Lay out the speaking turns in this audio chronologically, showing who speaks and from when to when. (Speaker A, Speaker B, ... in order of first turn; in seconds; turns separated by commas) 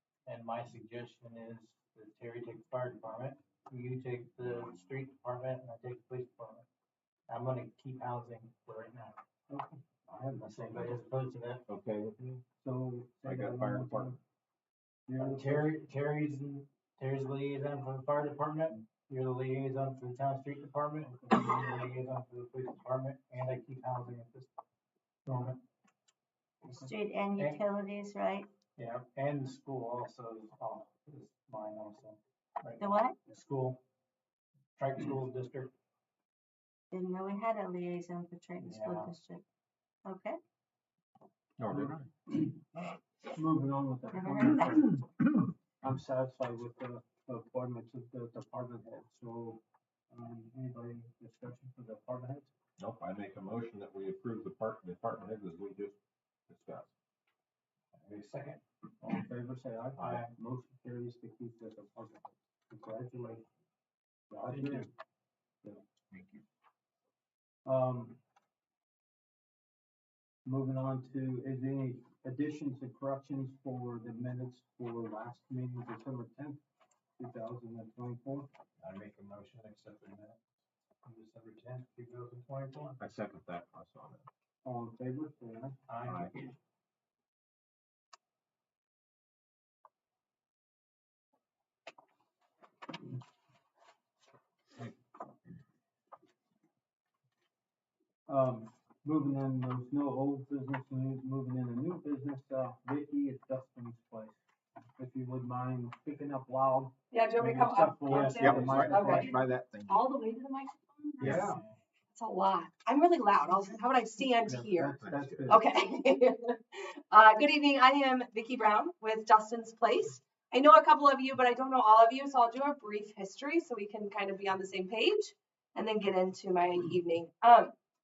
Speaker A: 0.2-6.7, Speaker A: 7.3-9.2, Speaker B: 9.5-11.0, Speaker A: 10.4-11.6, Speaker C: 11.7-12.4, Speaker B: 12.6-14.2, Speaker C: 13.2-14.2, Speaker B: 15.1-15.7, Speaker A: 15.2-24.5, Speaker A: 25.2-25.6, Speaker D: 26.7-28.5, Speaker A: 28.8-33.8, Speaker D: 32.8-33.2, Speaker A: 34.8-35.7, Speaker D: 36.9-39.4, Speaker A: 38.6-39.1, Speaker D: 40.0-40.4, Speaker C: 41.6-42.1, Speaker B: 41.7-42.4, Speaker B: 43.3-45.3, Speaker D: 44.1-44.8, Speaker B: 45.8-52.5, Speaker C: 52.8-56.0, Speaker C: 56.5-56.9, Speaker A: 58.0-58.6, Speaker B: 59.0-63.4, Speaker C: 60.0-60.2, Speaker B: 64.3-64.9, Speaker A: 64.4-64.9, Speaker C: 66.1-66.4, Speaker B: 67.6-68.2, Speaker B: 70.4-76.6, Speaker B: 77.2-78.5, Speaker A: 78.8-80.4, Speaker A: 81.0-83.0, Speaker C: 83.0-84.3, Speaker B: 84.6-85.8, Speaker A: 85.9-86.3, Speaker C: 86.0-86.5, Speaker B: 98.3-104.4, Speaker B: 105.0-109.3, Speaker E: 107.1-111.6, Speaker A: 108.2-108.6, Speaker C: 108.3-110.1, Speaker C: 111.2-111.5, Speaker B: 111.2-111.6, Speaker E: 112.1-127.7, Speaker B: 114.5-115.6, Speaker C: 115.0-115.6